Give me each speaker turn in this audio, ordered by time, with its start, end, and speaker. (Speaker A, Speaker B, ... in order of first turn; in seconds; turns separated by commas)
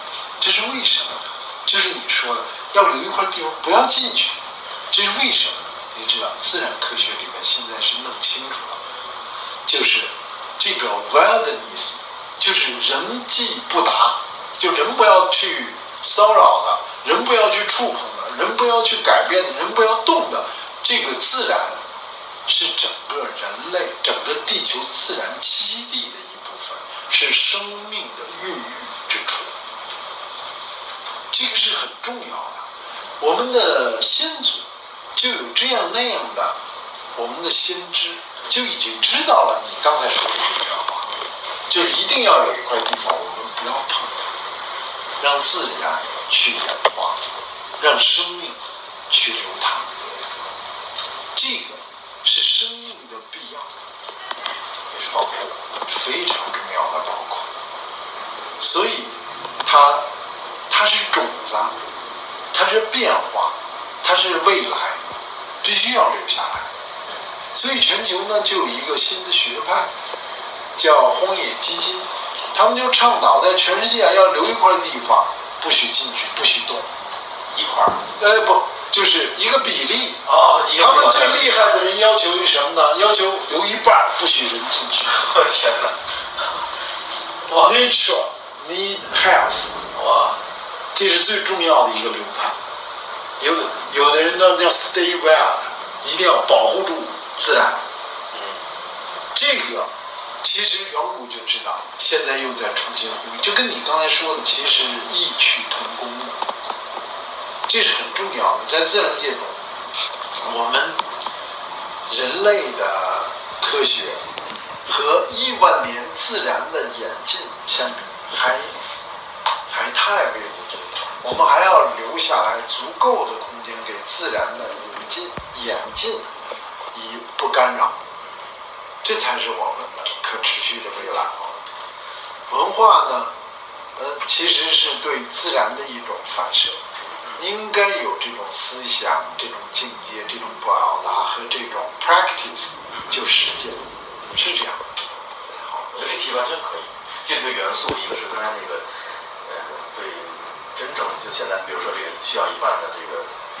Speaker A: 0.4-4.4, Speaker A: 4.9-8.8, Speaker A: 9.7-21.8, Speaker A: 22.4-29.5, Speaker A: 31.3-36.6, Speaker A: 37.1-41.1, Speaker A: 41.7-44.3, Speaker A: 45.2-47.2, Speaker A: 47.8-49.9, Speaker A: 51.3-53.8, Speaker B: 54.9-55.5, Speaker A: 55.8-57.5, Speaker A: 58.6-60.0, Speaker A: 60.7-61.8, Speaker A: 62.5-65.0, Speaker A: 65.6-66.7, Speaker A: 67.5-69.9, Speaker A: 70.8-76.9, Speaker B: 77.5-78.0, Speaker A: 78.2-80.2, Speaker B: 80.2-81.9, Speaker A: 80.7-85.3, Speaker B: 85.1-86.0, Speaker B: 87.5-87.8, Speaker A: 87.5-89.8, Speaker B: 89.9-90.4, Speaker A: 90.9-92.5, Speaker A: 93.4-97.8, Speaker B: 98.3-98.6, Speaker A: 99.3-99.9, Speaker A: 100.4-106.4, Speaker A: 107.7-109.6, Speaker A: 110.3-111.0, Speaker A: 112.1-114.2, Speaker A: 114.8-118.8, Speaker A: 119.7-126.4, Speaker A: 126.9-128.0, Speaker A: 129.0-131.6, Speaker A: 132.5-133.3, Speaker A: 133.9-136.8, Speaker A: 137.4-144.9, Speaker B: 145.5-148.9, Speaker B: 149.4-153.3